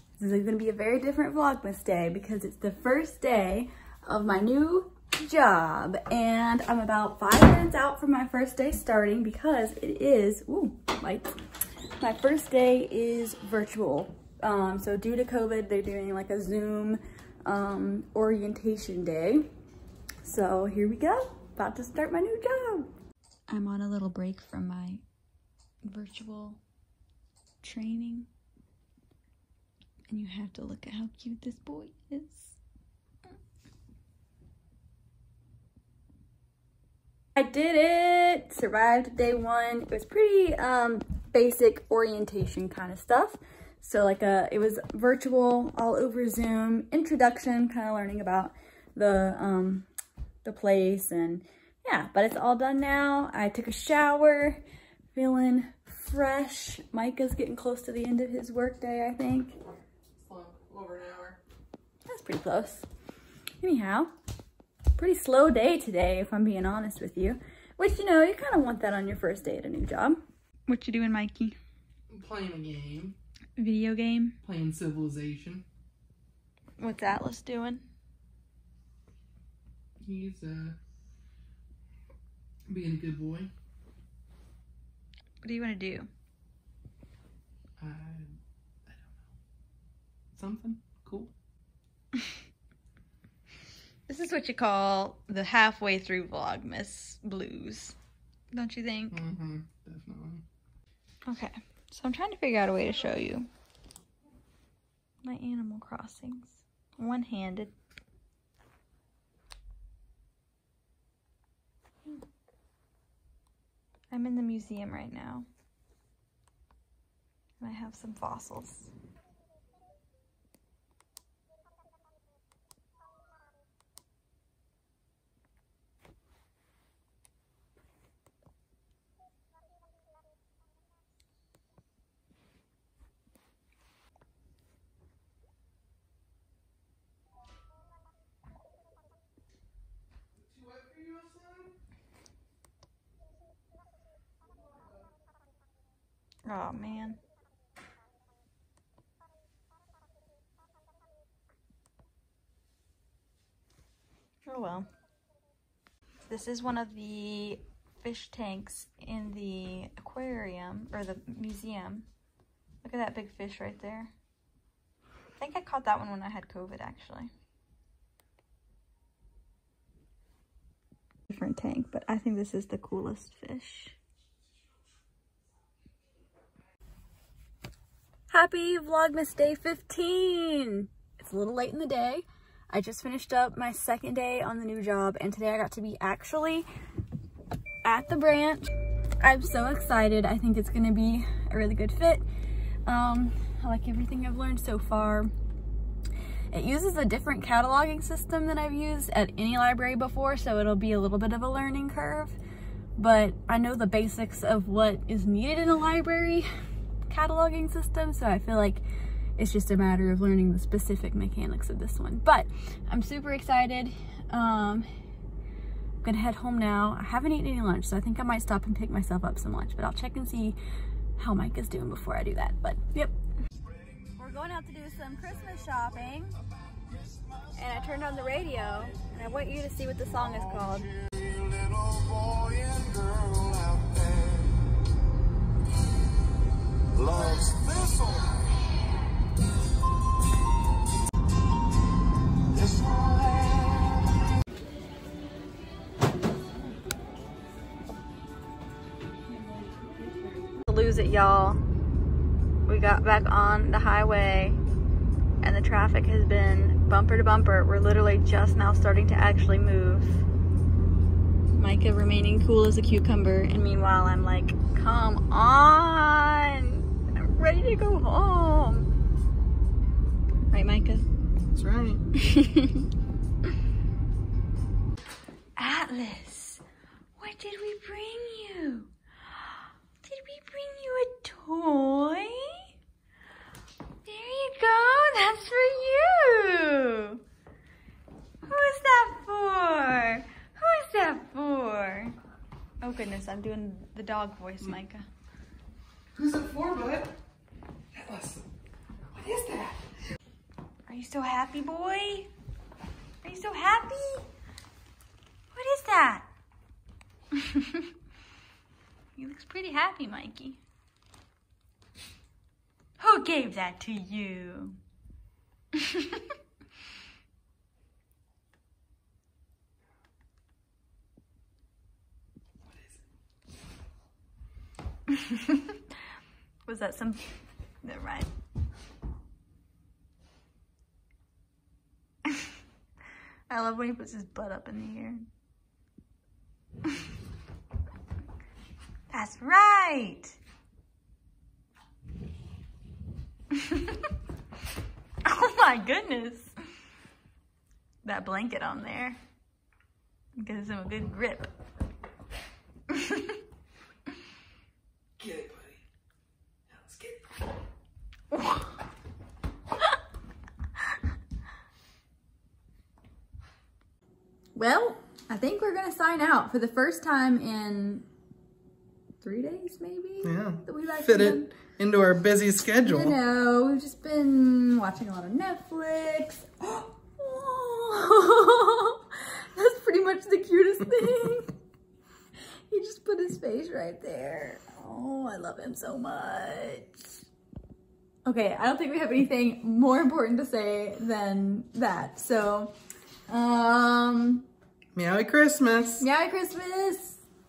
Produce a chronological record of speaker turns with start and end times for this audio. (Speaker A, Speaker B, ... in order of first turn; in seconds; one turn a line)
Speaker A: 0.2-11.3
Speaker A: 12.0-19.4
Speaker A: 20.2-22.9
Speaker A: 23.5-25.0
Speaker A: 25.8-26.6
Speaker A: 27.6-28.3
Speaker A: 30.1-32.6
Speaker A: 37.4-49.9
Speaker A: 50.4-54.6
Speaker A: 55.1-59.5
Speaker B: 60.2-61.4
Speaker A: 62.0-62.9
Speaker A: 63.6-64.1
Speaker A: 65.0-71.6
Speaker B: 72.1-73.2
Speaker A: 73.6-74.4
Speaker B: 74.4-75.6
Speaker A: 76.8-77.8
Speaker B: 80.0-80.8
Speaker B: 82.7-83.5
Speaker A: 85.4-86.1
Speaker B: 87.8-89.3
Speaker B: 90.3-91.3
Speaker A: 94.1-98.0
Speaker A: 98.5-99.2
Speaker B: 99.1-100.4
Speaker A: 101.2-103.5
Speaker A: 105.2-107.7
Speaker A: 114.1-115.5
Speaker A: 117.6-118.9
Speaker B: 140.3-141.8
Speaker A: 146.4-147.2
Speaker A: 154.4-154.9
Speaker A: 156.3-162.1
Speaker A: 162.8-164.1
Speaker A: 165.4-167.3
Speaker A: 171.3-173.9
Speaker A: 178.3-186.7
Speaker A: 187.8-192.2
Speaker A: 192.8-195.3
Speaker A: 196.5-202.4
Speaker A: 202.9-206.5
Speaker A: 207.1-208.8
Speaker A: 209.4-214.9
Speaker A: 216.0-220.6
Speaker A: 221.2-223.1
Speaker A: 224.2-226.3
Speaker A: 227.5-231.0
Speaker A: 249.3-251.6
Speaker A: 252.7-254.6
Speaker A: 255.4-260.2
Speaker A: 261.6-268.9
Speaker A: 270.5-271.1
Speaker B: 271.5-272.0
Speaker A: 272.1-272.9
Speaker A: 275.6-276.6
Speaker A: 277.2-278.9
Speaker A: 280.0-282.7
Speaker A: 284.0-287.2
Speaker A: 288.4-292.1
Speaker A: 292.8-295.1
Speaker B: 296.1-297.1
Speaker B: 297.9-298.5
Speaker B: 299.1-299.8
Speaker A: 300.9-302.3
Speaker A: 303.2-304.3
Speaker A: 305.5-306.3
Speaker A: 307.3-307.9
Speaker A: 309.1-310.6
Speaker A: 313.0-314.8
Speaker A: 315.7-316.2
Speaker A: 325.1-325.8
Speaker A: 326.6-327.2
Speaker A: 327.8-328.3
Speaker A: 333.5-335.3
Speaker A: 339.1-340.4
Speaker A: 343.5-344.1
Speaker A: 345.2-346.5
Speaker A: 348.0-349.2
Speaker A: 350.4-351.5
Speaker A: 352.9-353.4
Speaker B: 355.2-355.8
Speaker B: 356.7-357.2
Speaker A: 358.3-358.6
Speaker A: 364.5-368.1
Speaker A: 369.2-371.5
Speaker B: 370.2-373.2
Speaker A: 372.8-381.5
Speaker A: 382.7-387.2
Speaker A: 388.2-392.7
Speaker A: 393.3-394.4
Speaker B: 394.9-396.0
Speaker A: 396.0-397.2